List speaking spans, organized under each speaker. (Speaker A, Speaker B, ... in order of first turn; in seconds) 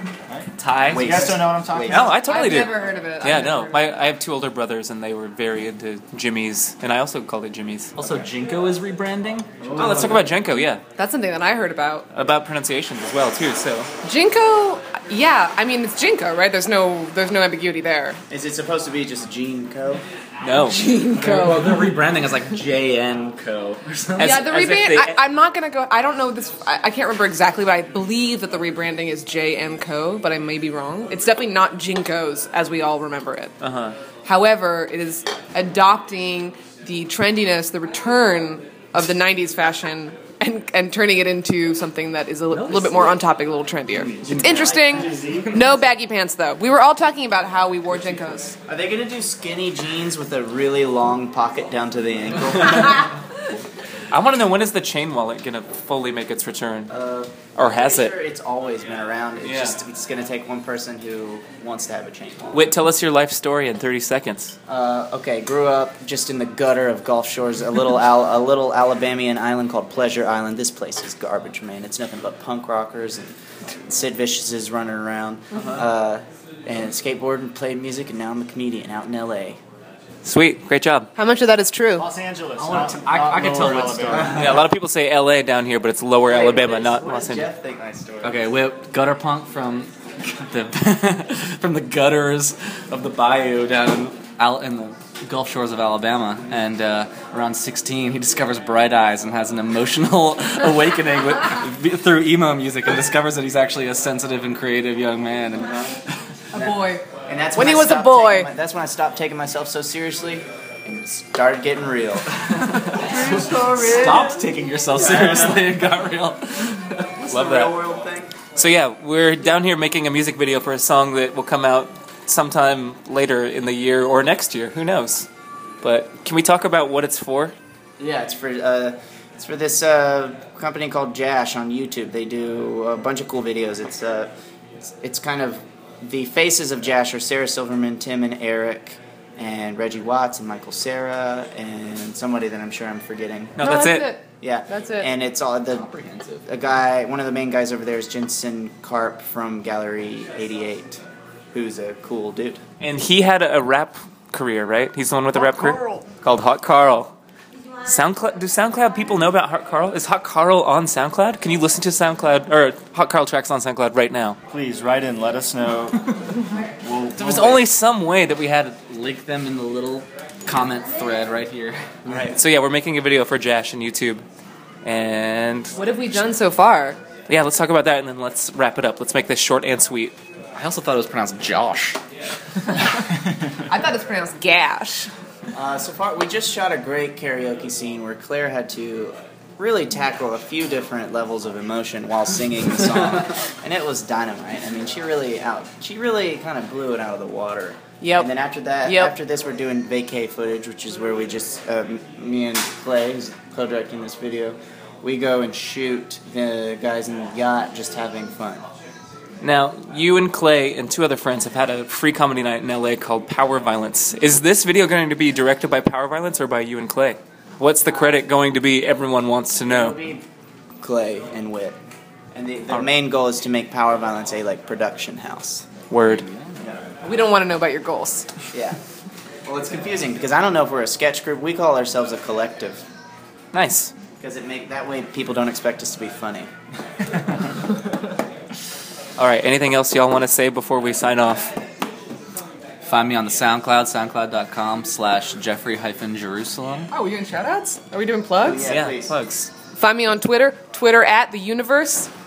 Speaker A: 0.3-2.1, 9.6-10.0, 44.1-45.6, 82.0-84.6, 113.4-113.9, 155.4-155.7, 164.5-166.1, 166.8-167.7
Speaker B: 0.6-7.9, 9.8-10.8, 12.1-13.9, 20.4-20.8, 24.2-25.2, 33.6-34.0, 54.1-56.9, 57.6-58.2, 59.4-59.8, 62.5-64.5, 80.2-81.1, 84.3-87.5, 117.3-117.7, 118.5-125.3, 125.8-127.5, 143.6-144.1, 152.8-157.1, 157.8-164.4, 167.2-168.8, 172.1-174.2, 174.8-175.8, 177.3-180.2, 209.4-220.0, 225.9-226.3, 233.5-233.9, 239.2-241.5, 248.7-249.5
Speaker C: 0.9-2.2, 18.3-20.0, 48.7-53.1, 56.9-62.7, 64.7-79.6, 86.3-88.5, 106.5-112.3, 113.1-114.3, 115.0-115.4, 117.2-118.3, 128.0-134.3, 134.9-143.6, 144.4-145.9, 146.4-151.0, 151.5-152.6, 185.5-208.7, 219.7-220.2, 220.8-221.8, 222.3-225.8, 228.5-228.8, 229.4-232.8, 234.2-236.5, 248.4-249.1
Speaker D: 2.2-3.9, 11.0-12.1, 14.0-18.2, 20.6-21.8, 24.2-33.5, 34.2-48.6, 81.2-82.1, 106.5-107.0, 107.5-108.5, 143.6-145.1, 175.8-177.0, 183.7-185.1, 198.0-198.3, 198.8-199.1, 227.0-228.3, 246.9-248.7, 249.8-252.1
Speaker E: 8.0-10.1, 21.1-24.4, 42.5-43.1, 75.5-75.9, 82.6-84.6, 88.2-106.0, 112.4-117.2, 145.7-146.5, 168.8-172.3, 180.6-182.0, 226.1-226.6, 242.8-246.9